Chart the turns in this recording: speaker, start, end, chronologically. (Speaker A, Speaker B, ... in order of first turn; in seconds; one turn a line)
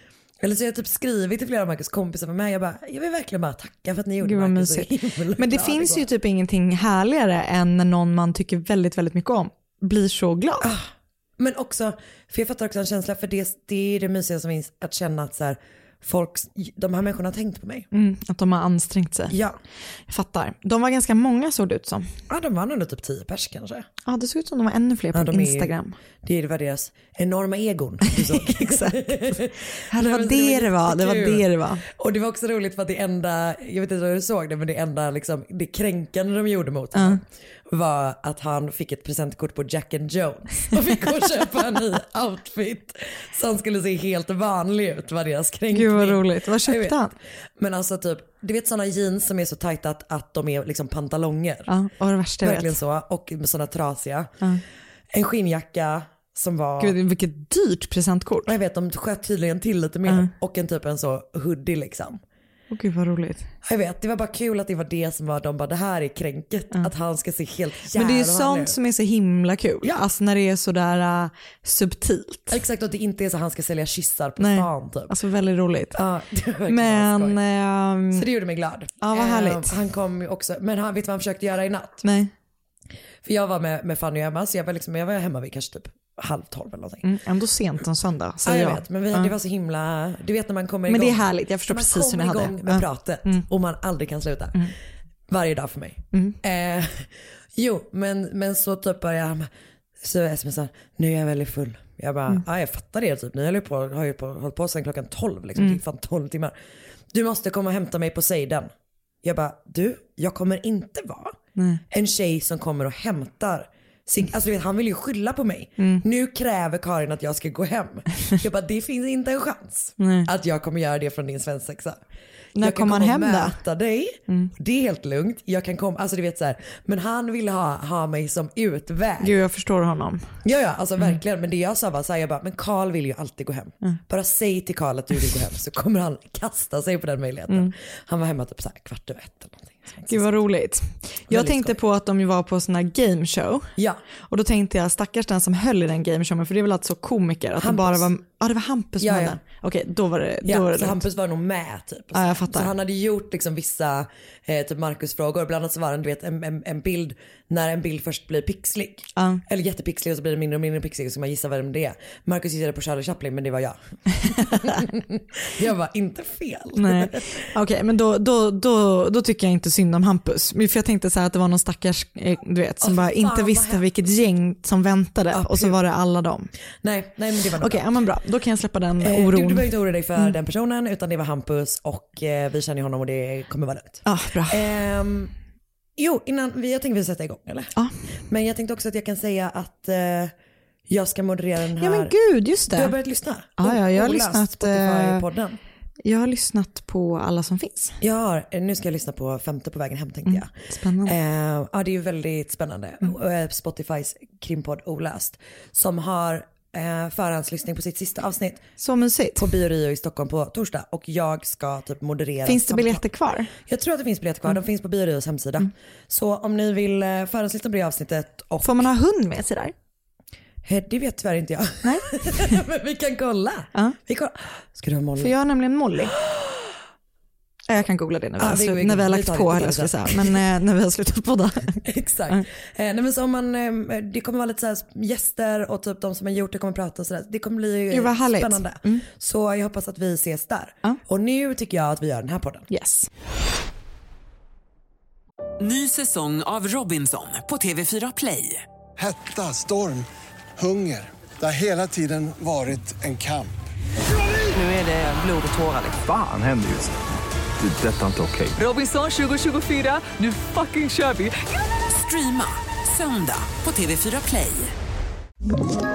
Speaker A: 0.4-6.1
Speaker B: 4.2-10.7
Speaker A: 10.6-17.9
Speaker B: 17.9-19.4
Speaker A: 19.3-19.6
Speaker B: 20.1-22.1
Speaker A: 22.3-23.9
Speaker B: 24.1-26.0
Speaker A: 25.1-25.7
Speaker A: 26.2-47.0
Speaker B: 28.1-29.4
Speaker B: 29.9-31.8
Speaker B: 36.9-37.2
Speaker B: 45.7-47.1
Speaker A: 47.6-51.7
Speaker B: 51.7-52.8
Speaker A: 52.4-54.3
Speaker A: 55.1-57.0
Speaker B: 56.8-58.5
Speaker A: 58.5-62.2
Speaker B: 62.7-63.5
Speaker A: 63.6-68.8
Speaker B: 67.9-72.6
Speaker A: 72.5-75.1
Speaker B: 74.4-76.0
Speaker A: 75.9-77.4
Speaker B: 76.7-78.2
Speaker A: 78.1-82.0
Speaker B: 79.0-79.8
Speaker B: 82.0-82.3
Speaker A: 83.2-87.1
Speaker B: 87.0-89.3
Speaker A: 88.5-94.7
Speaker B: 90.9-93.5
Speaker A: 95.3-99.5
Speaker B: 96.1-96.4
Speaker A: 100.0-106.5
Speaker A: 107.1-108.7
Speaker A: 109.2-111.4
Speaker A: 111.9-122.0
Speaker B: 115.8-116.0
Speaker B: 120.0-120.3
Speaker B: 122.5-123.6
Speaker A: 122.6-129.4
Speaker B: 129.2-130.3
Speaker A: 130.4-140.3
Speaker B: 140.1-143.7
Speaker A: 141.3-141.8
Speaker A: 143.8-144.0
Speaker B: 144.3-151.0
Speaker A: 147.6-148.1
Speaker A: 149.0-149.4
Speaker A: 150.4-167.5
Speaker B: 152.1-152.7
Speaker B: 159.2-159.4
Speaker B: 166.8-176.5
Speaker A: 172.8-173.8
Speaker A: 175.3-175.7
Speaker A: 176.8-177.9
Speaker B: 177.6-179.7
Speaker A: 179.0-185.3
Speaker B: 184.1-184.8
Speaker A: 186.0-190.3
Speaker A: 190.9-192.1
Speaker B: 191.8-192.9
Speaker A: 192.7-195.6
Speaker B: 193.6-195.2
Speaker B: 196.1-198.0
Speaker A: 198.0-200.5
Speaker B: 200.3-201.1
Speaker A: 201.1-208.6
Speaker B: 208.8-209.5
Speaker A: 209.4-213.0
Speaker B: 212.4-213.5
Speaker A: 213.6-218.9
Speaker B: 218.6-219.7
Speaker A: 220.7-225.3
Speaker B: 221.8-222.5
Speaker B: 225.2-226.1
Speaker A: 226.2-226.7
Speaker B: 227.7-232.4
Speaker A: 228.4-230.4
Speaker A: 231.8-242.7
Speaker B: 237.9-239.1
Speaker B: 242.7-243.1
Speaker C: 245.6-248.6
Speaker D: 249.0-250.1
Speaker D: 250.6-253.5
Speaker C: 254.5-255.9
Speaker E: 256.0-256.9
Speaker E: 257.6-258.6
Speaker C: 258.6-261.4
Speaker C: 261.9-264.7